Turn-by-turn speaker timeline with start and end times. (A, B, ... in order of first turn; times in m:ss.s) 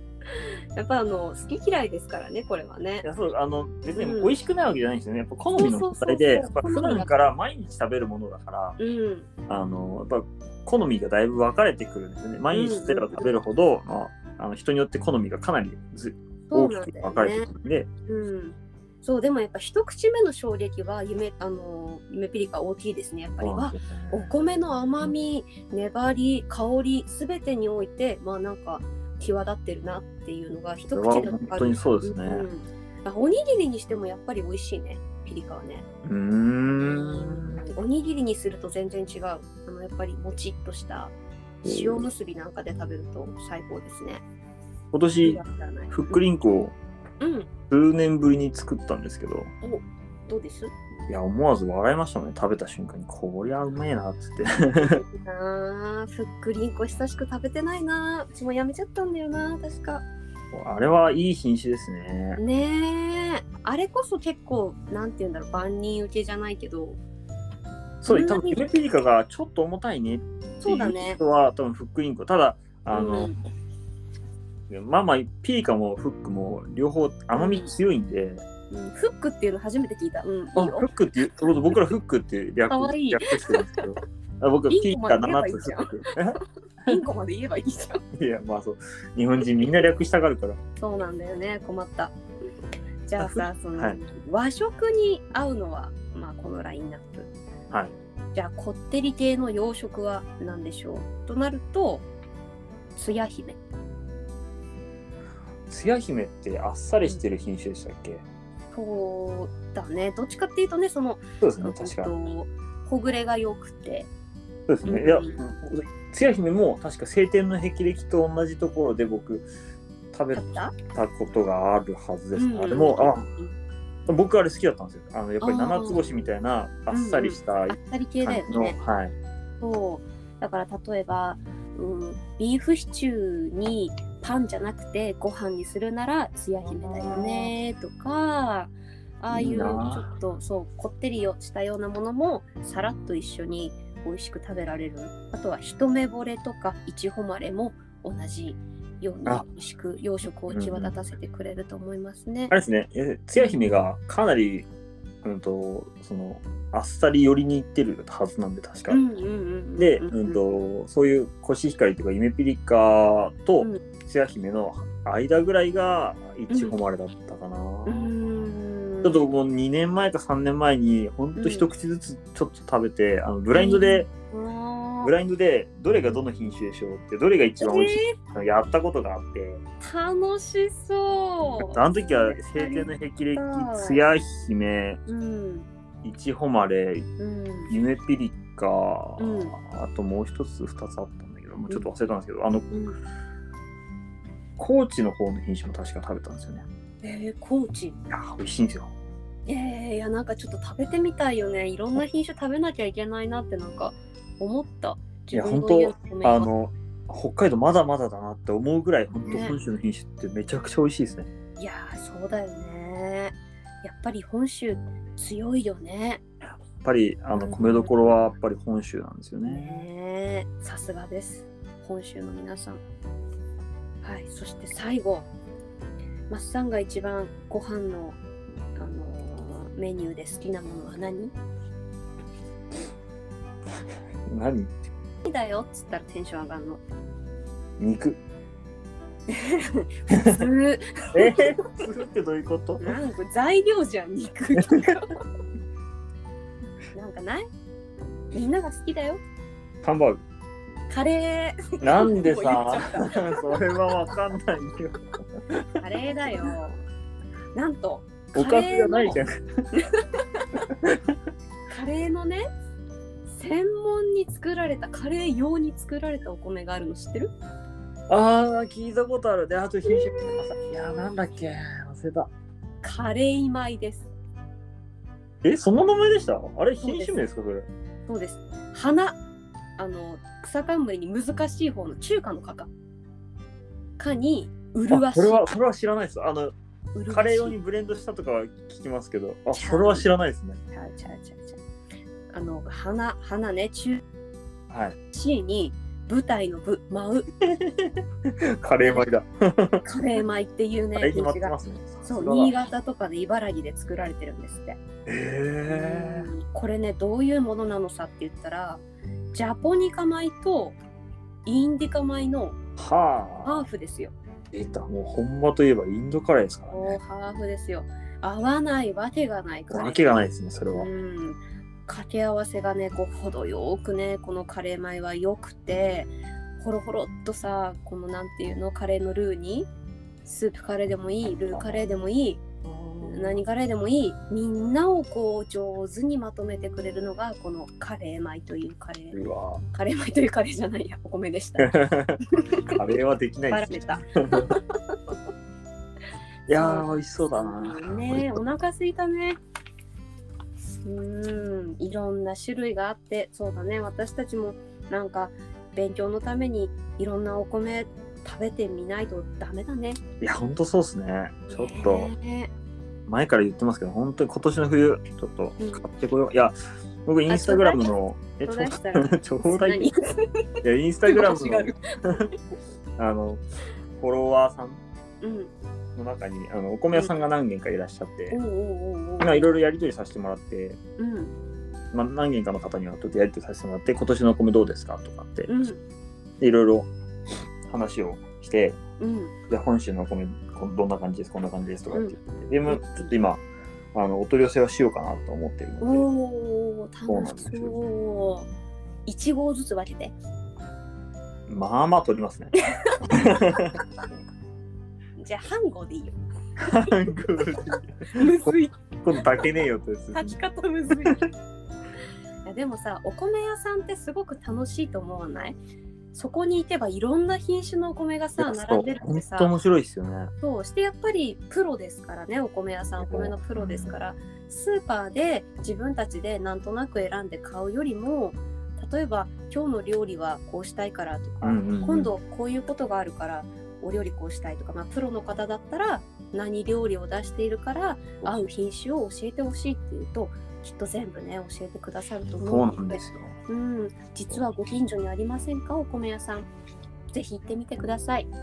0:00.2-0:03.0 A
0:03.0-0:08.8 B
0:03.9-0:04.4 A
0:05.5-0:07.1 A
0:08.8-0:09.3 A
0:09.5-0:17.9 B
0:12.5-0:13.1 A
0:16.5-0:17.5 A
0:18.1-0:35.8 A
0:23.4-0:24.3 B
0:30.9-0:32.5 B
0:36.0-0:37.6 B
0:36.8-0:44.2 A
0:41.6-0:42.1 B
0:44.9-0:46.8 B
0:45.2-0:46.2 A
0:47.2-0:47.5 A
0:47.7-0:49.5 B
0:49.6-0:50.7 A
0:51.1-0:55.0 B
0:54.8-1:00.0 A
1:00.5-1:02.4 B
1:02.4-1:07.0 A
1:08.0-1:13.3 B
1:08.1-1:08.7 A
1:10.6-1:11.2 A
1:12.9-1:13.4 A
1:14.7-1:18.4 B
1:17.3-1:17.7 A
1:18.7-1:20.9 A
1:20.5-1:27.0 B
1:22.7-1:23.9 A
1:24.7-1:26.1 A
1:26.8-1:28.0 A
1:28.2-1:30.6 B
1:30.8-1:32.1 A
1:33.1-1:37.3 A
1:33.2-1:34.0 B
1:38.3-1:42.1 A
1:42.9-1:43.6 A
1:45.7-1:48.2 B
1:48.7-1:54.1 A
1:51.4-1:52.1 B
1:54.7-1:59.5 B
1:54.8-1:55.4 A
2:00.1-2:03.2 B
2:00.3-2:00.7 A
2:02.4-2:03.5 A
2:04.1-2:09.1 B
2:05.4-2:06.0 A
2:06.9-2:08.8 A
2:09.6-2:32.5 A
2:16.6-2:17.5 B
2:19.3-2:20.1 B
2:30.5-2:30.9 B
2:32.5-2:34.7 B
2:35.2-2:39.0 B
2:38.9-2:40.4 A
2:39.8-2:48.1 B
2:46.5-2:46.8 A
2:47.8-2:49.2 A
2:49.0-2:54.1 B
2:51.3-2:51.7 A
2:53.5-2:55.1 A
2:55.0-2:59.6 B
2:57.6-2:58.2 A
2:59.8-3:04.0 A
3:01.6-3:05.0 B
3:05.1-3:05.7 A
3:06.0-3:07.1 B
3:07.2-3:07.7 A
3:07.7-3:12.7 B
3:09.2-3:09.5 A
3:12.7-3:13.0 A
3:14.6-3:16.6 B
3:17.0-3:18.0 A
3:18.1-3:18.9 B
3:19.5-3:26.5 A
3:25.3-3:31.3 B
3:29.2-3:29.6 A
3:31.6-3:36.2 A
3:36.8-3:39.8 B
3:37.3-3:38.2 A
3:39.4-3:42.8 A
3:44.0-3:45.3 A
3:46.3-3:48.2 A
3:48.8-3:51.3 A
3:54.3-3:54.7 B
3:55.2-3:56.8 A
3:57.8-3:58.2 B
3:59.3-4:01.8 A
4:00.1-4:00.4 B
4:01.1-4:02.9 B
4:02.8-4:05.1 A
4:06.9-4:07.5 A
4:08.3-4:09.2 A
4:09.8-4:10.2 B
4:10.9-4:13.4 A
4:11.8-4:15.6 B
4:15.8-4:16.8 A
4:17.5-4:19.2 A
4:18.3-4:19.6 B
4:19.7-4:20.6 A
4:21.7-4:22.4 A
4:23.3-4:27.3 A
4:28.1-4:32.3 B
4:29.8-4:30.4 A
4:32.8-4:34.1 A
4:35.4-4:37.7 B
4:36.8-4:37.2 A
4:38.1-4:39.2 A
4:39.8-4:42.7 A
4:44.0-4:45.5 A
4:44.9-4:46.5 B
4:46.9-4:47.6 A
4:47.1-4:50.6 B
4:49.5-4:50.1 A
4:50.7-4:51.6 A
4:52.3-4:54.0 A
4:54.7-4:54.9 B
4:55.1-4:57.3 A
4:57.4-4:59.8 B
4:59.8-5:04.8 A
5:01.0-5:02.5 B
5:05.0-5:06.3 B
5:05.7-5:10.8 A
5:11.4-5:12.6 A
5:12.8-5:13.7 B
5:13.4-5:14.2 A
5:14.5-5:17.0 B
5:16.7-5:29.7 A
5:19.7-5:20.9 B
5:30.2-5:32.4 A
5:31.5-5:31.8 B
5:32.6-5:33.4 B
5:33.0-5:39.2 A
5:39.1-5:39.6 B
5:39.7-5:41.7 A
5:41.6-5:42.2 B
5:42.5-5:42.8 A
5:42.7-5:44.5 B
5:43.5-5:45.1 A
5:46.5-5:48.4 B
5:46.5-5:49.4 A
5:50.8-6:00.0 A
6:00.2-6:02.1 B
6:01.5-6:02.5 A
6:03.1-6:09.9 B
6:05.6-6:05.8 A
6:07.3-6:10.4 A
6:10.6-6:12.3 B
6:11.0-6:12.3 A
6:13.0-6:13.4 B
6:14.0-6:14.8 B
6:15.2-6:15.5 A
6:15.9-6:18.4 B
6:16.9-6:17.2 A
6:18.3-6:19.5 A
6:19.2-6:20.8 B
6:21.0-6:21.3 A
6:21.9-6:25.5 B
6:25.5-6:25.8 A
6:26.4-6:26.9 B
6:27.7-6:28.8 B
6:29.0-6:29.3 A
6:29.5-6:36.1 B
6:31.9-6:32.2 A
6:35.8-6:38.5 A
6:37.1-6:37.7 B
6:39.0-6:40.1 A
6:41.5-6:42.5 B
6:42.8-6:43.6 A
6:43.1-6:43.8 B
6:45.2-6:46.2 A
6:46.6-6:50.4 B
6:48.1-6:48.7 A
6:50.1-6:51.3 A
6:52.4-6:55.6 A
6:56.1-6:59.5 A
6:58.4-7:00.3 B
7:00.4-7:26.5 A
7:03.0-7:03.9 B
7:11.4-7:12.1 B
7:18.2-7:18.5 B
7:22.4-7:23.3 B
7:27.1-7:28.3 A